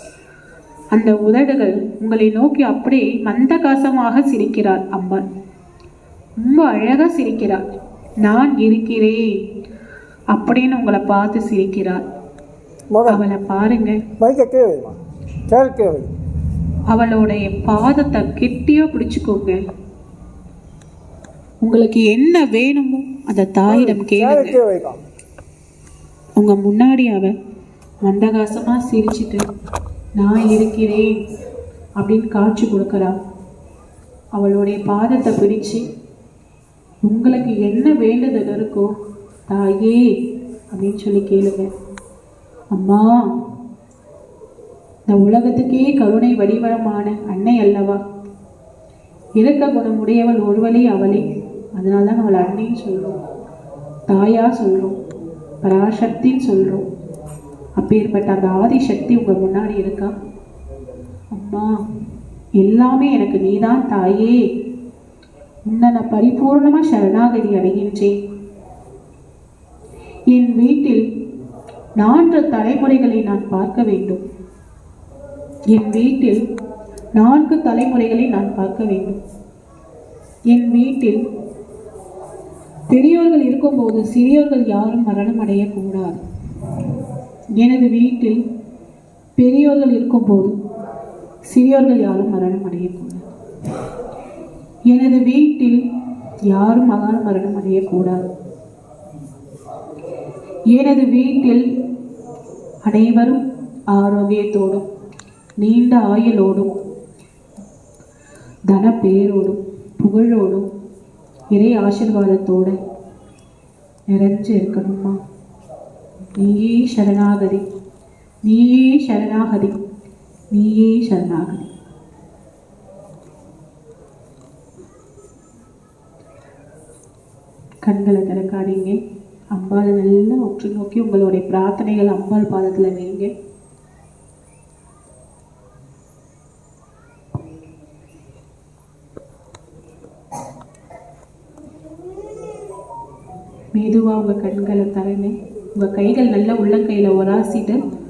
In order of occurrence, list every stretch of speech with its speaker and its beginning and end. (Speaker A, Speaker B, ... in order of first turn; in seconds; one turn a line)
Speaker A: 0.9-5.2
Speaker A: 6.4-7.7
Speaker A: 8.2-9.2
Speaker A: 10.3-12.0
Speaker B: 12.9-13.2
Speaker A: 13.1-14.0
Speaker B: 14.2-15.0
Speaker B: 15.5-16.1
Speaker A: 16.9-19.6
Speaker A: 21.6-24.6
Speaker B: 23.7-25.0
Speaker A: 26.4-27.3
Speaker A: 28.0-29.4
Speaker A: 30.2-31.2
Speaker A: 32.0-33.2
Speaker A: 34.4-35.8
Speaker A: 37.1-38.9
Speaker A: 39.5-40.0
Speaker A: 40.7-41.7
Speaker A: 42.7-43.2
Speaker A: 45.1-48.0
Speaker A: 49.4-53.1
Speaker A: 54.1-55.0
Speaker A: 55.6-56.9
Speaker A: 57.8-60.1
Speaker A: 61.4-61.7
Speaker A: 62.6-64.4
Speaker A: 65.7-68.2
Speaker A: 70.3-71.0
Speaker A: 72.0-74.2
Speaker A: 75.7-76.4
Speaker A: 77.2-79.2
Speaker A: 80.5-81.2
Speaker A: 82.9-86.2
Speaker A: 87.6-88.4
Speaker A: 89.4-90.5
Speaker A: 91.5-93.3
Speaker A: 94.9-95.8
Speaker A: 96.5-98.3
Speaker A: 100.7-101.7
Speaker A: 102.8-103.4
Speaker A: 103.9-104.9
Speaker A: 105.6-106.7
Speaker A: 108.7-110.7
Speaker A: 111.5-112.8
Speaker A: 114.1-115.2
Speaker A: 116.4-117.7
Speaker A: 118.5-119.8
Speaker A: 120.5-121.7
Speaker A: 127.8-129.0
Speaker A: 129.5-133.3
Speaker A: 143.7-147.8